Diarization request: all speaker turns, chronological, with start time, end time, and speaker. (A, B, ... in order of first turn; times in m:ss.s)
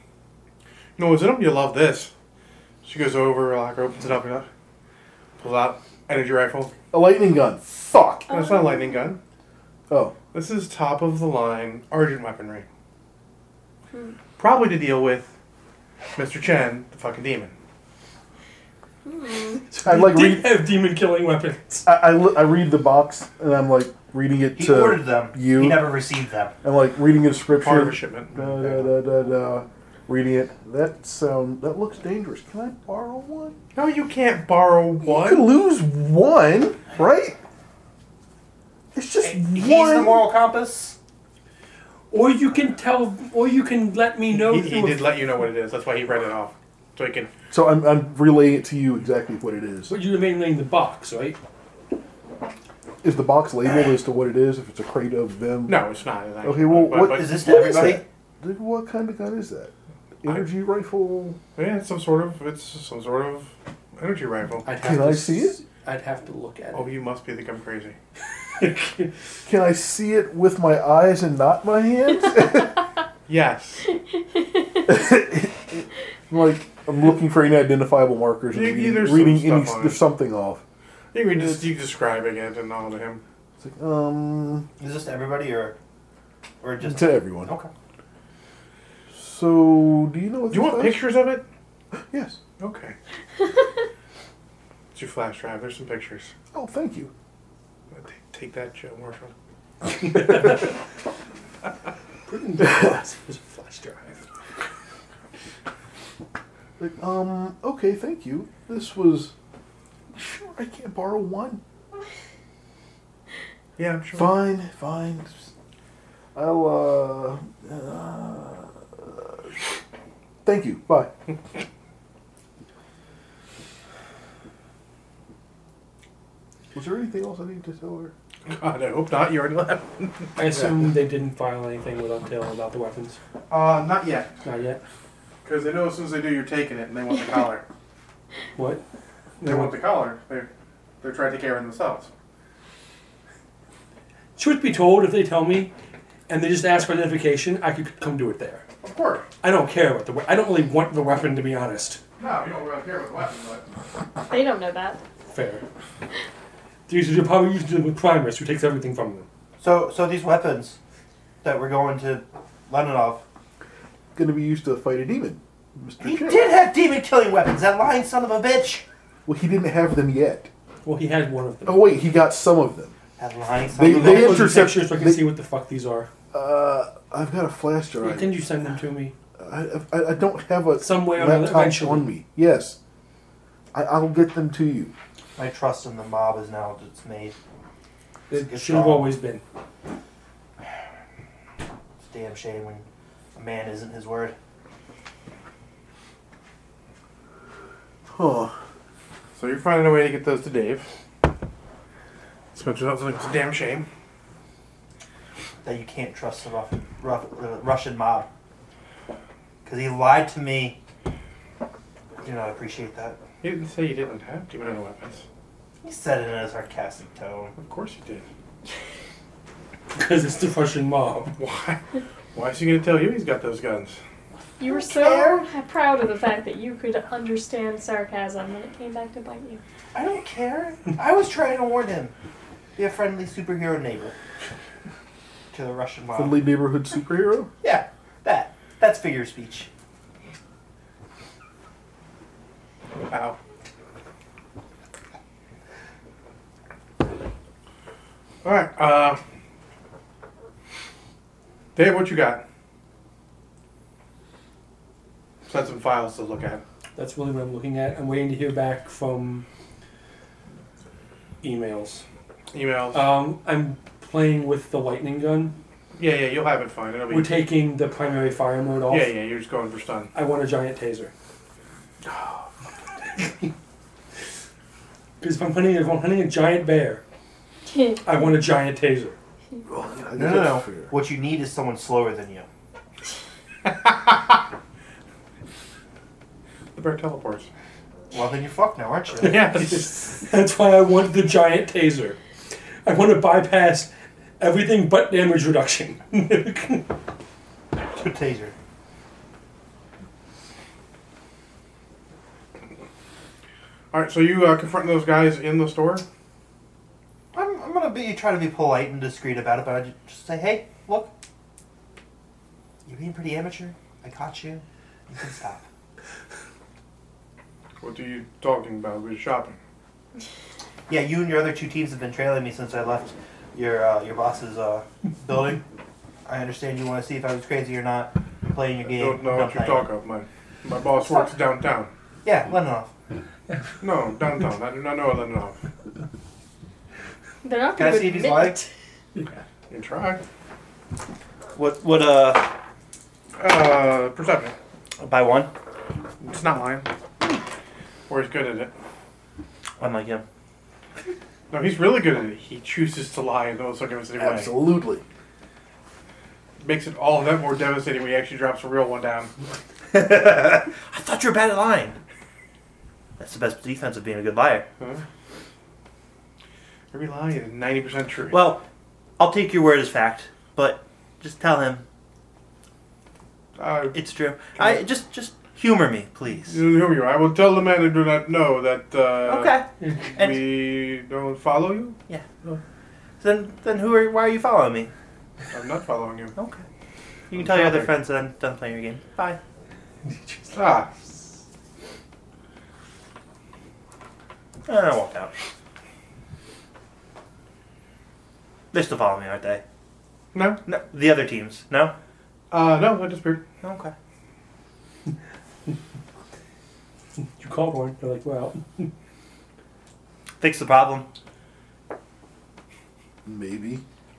0:01.0-0:02.1 A
0:02.8-0:04.5 A
0:05.4-0:06.8 A
0:06.9-0:08.3 B
0:08.3-0:09.1 C
0:08.3-0:09.2 A
0:09.9-0:10.2 B
0:10.3-0:12.7 A
0:14.4-0:15.3 A
0:16.2-0:17.6 A
0:19.1-0:19.6 C
0:19.7-0:21.9 D
0:19.8-0:20.6 B
0:21.9-0:26.0 B
0:24.6-0:26.5 E
0:26.6-0:33.6 B
0:27.5-0:28.9 A
0:33.8-0:35.5 A
0:35.0-0:37.4 B
0:38.9-0:40.3 B
0:39.2-0:41.0 E
0:42.1-0:45.2 D
0:44.3-0:47.3 A
0:47.5-0:50.0 B
0:49.9-0:51.4 D
0:53.0-0:55.8 B
0:55.7-0:58.0 A
0:56.4-1:01.4 B
0:57.0-0:58.0 E
1:01.6-1:04.7 A
1:04.7-1:06.9 D
1:04.8-1:05.6 B
1:06.7-1:08.0 A
1:08.6-1:09.1 D
1:09.5-1:12.8 B
1:13.3-1:13.9 A
1:14.3-1:14.8 C
1:14.9-1:20.6 B
1:18.5-1:20.0 A
1:21.1-1:23.2 A
1:21.3-1:21.7 B
1:23.6-1:24.7 B
1:24.8-1:25.8 E
1:26.6-1:27.7 E
1:26.8-1:27.5 B
1:29.1-1:31.1 B
1:30.5-1:31.4 A
1:31.9-1:32.4 B
1:32.6-1:33.0 A
1:34.9-1:36.3 A
1:36.5-1:37.1 B
1:37.9-1:39.3 A
1:40.1-1:40.7 D
1:42.3-1:44.2 D
1:42.6-1:43.0 B
1:46.8-1:49.3 B
1:50.1-1:51.6 B
1:53.8-1:54.4 A
1:54.1-1:55.5 B
1:56.4-1:59.6 B
2:00.4-2:01.1 B
2:06.7-2:08.1 B
2:08.5-2:10.3 A
2:10.4-2:13.2 D
2:13.5-2:14.3 A
2:14.4-2:14.8 D
2:15.4-2:17.6 A
2:18.6-2:18.8 D
2:19.4-2:19.8 D
2:19.4-2:20.5 A
2:21.0-2:22.1 A
2:24.4-2:25.7 D
2:26.3-2:28.6 D
2:28.8-2:29.3 A
2:29.4-2:32.0 D
2:32.2-2:33.7 A
2:34.3-2:35.0 C
2:35.3-2:35.6 D
2:36.9-2:39.3 D
2:39.6-2:40.8 E
2:41.4-2:43.2 E
2:44.2-2:46.6 B
2:46.0-2:48.8 E
2:49.3-2:50.5 B
2:50.8-2:52.0 D
2:51.7-2:52.9 B
2:53.2-2:54.6 E
2:53.8-2:55.3 B
2:53.8-2:56.1 D
2:56.3-2:58.4 B
2:58.0-2:59.1 D
2:59.4-3:02.8 B
3:00.8-3:02.1 D
3:03.7-3:04.9 B
3:05.4-3:07.4 E
3:08.3-3:09.4 D
3:08.4-3:09.1 E
3:12.0-3:14.4 E
3:18.1-3:18.6 B
3:19.4-3:20.9 A
3:22.5-3:23.9 A
3:25.6-3:28.3 E
3:29.6-3:30.8 E
3:32.2-3:33.2 E
3:33.4-3:35.2 A
3:35.8-3:37.5 E
3:37.6-3:38.2 A
3:39.9-3:41.3 D
3:41.4-3:41.8 A
3:42.3-3:44.0 A
3:44.6-3:49.6 C
3:44.6-3:45.5 E
3:49.9-3:52.1 E
3:52.8-3:54.2 E
3:55.5-3:56.4 E
3:56.2-3:57.5 B
3:57.6-3:59.7 E
4:03.1-4:03.4 A
4:08.4-4:09.2 A
4:11.8-4:12.4 A
4:15.5-4:16.6 A
4:17.0-4:19.4 D
4:21.4-4:22.0 D
4:22.5-4:23.1 A
4:22.9-4:25.6 D
4:26.0-4:27.4 A
4:27.1-4:29.1 D
4:28.9-4:30.1 A
4:30.1-4:31.1 D
4:32.0-4:32.5 B
4:35.2-4:37.0 D
4:37.7-4:38.0 C
4:38.0-4:39.2 D
4:39.7-4:40.9 B
4:40.2-4:42.5 E
4:43.6-4:44.4 A
4:46.8-4:47.5 A
4:48.1-4:49.6 E
4:49.2-4:50.0 A
4:49.2-4:52.2 D
4:52.8-4:56.9 D
4:57.9-4:58.6 E
5:03.9-5:06.0 A
5:07.3-5:11.1 E
5:12.8-5:15.7 E
5:17.8-5:19.6 A
5:20.9-5:25.6 E
5:26.3-5:29.9 E
5:28.9-5:31.9 A
5:31.0-5:31.3 C
5:32.2-5:32.9 E
5:33.5-5:33.8 D
5:33.8-5:35.6 A
5:37.4-5:38.7 C
5:37.8-5:38.6 E
5:39.7-5:40.2 A
5:41.6-5:42.5 E
5:43.4-5:44.6 A
5:45.0-5:45.5 E
5:46.2-5:46.9 A
5:48.1-5:48.7 A
5:49.8-5:50.2 E
5:51.5-5:54.5 A
5:54.2-5:55.0 B
5:56.6-5:59.3 A
5:59.9-6:02.0 E
6:03.2-6:04.7 E
6:06.9-6:08.5 A
6:08.3-6:08.6 E
6:09.2-6:11.8 E
6:13.6-6:14.0 A
6:13.9-6:16.6 E
6:14.6-6:14.8 A
6:16.5-6:19.6 A
6:19.2-6:20.5 E
6:19.8-6:20.1 D
6:20.1-6:22.6 A
6:23.2-6:24.9 E
6:25.5-6:26.3 A
6:26.4-6:26.6 E
6:27.3-6:29.4 E
6:27.3-6:27.9 A
6:30.1-6:30.6 D
6:30.5-6:30.9 A
6:34.7-6:35.3 E
6:38.7-6:39.6 E
6:40.3-6:40.6 A
6:40.7-6:41.9 E
6:42.5-6:43.4 A
6:43.6-6:43.9 E
6:47.4-6:48.9 D
6:50.4-6:51.1 E
6:53.2-6:53.8 B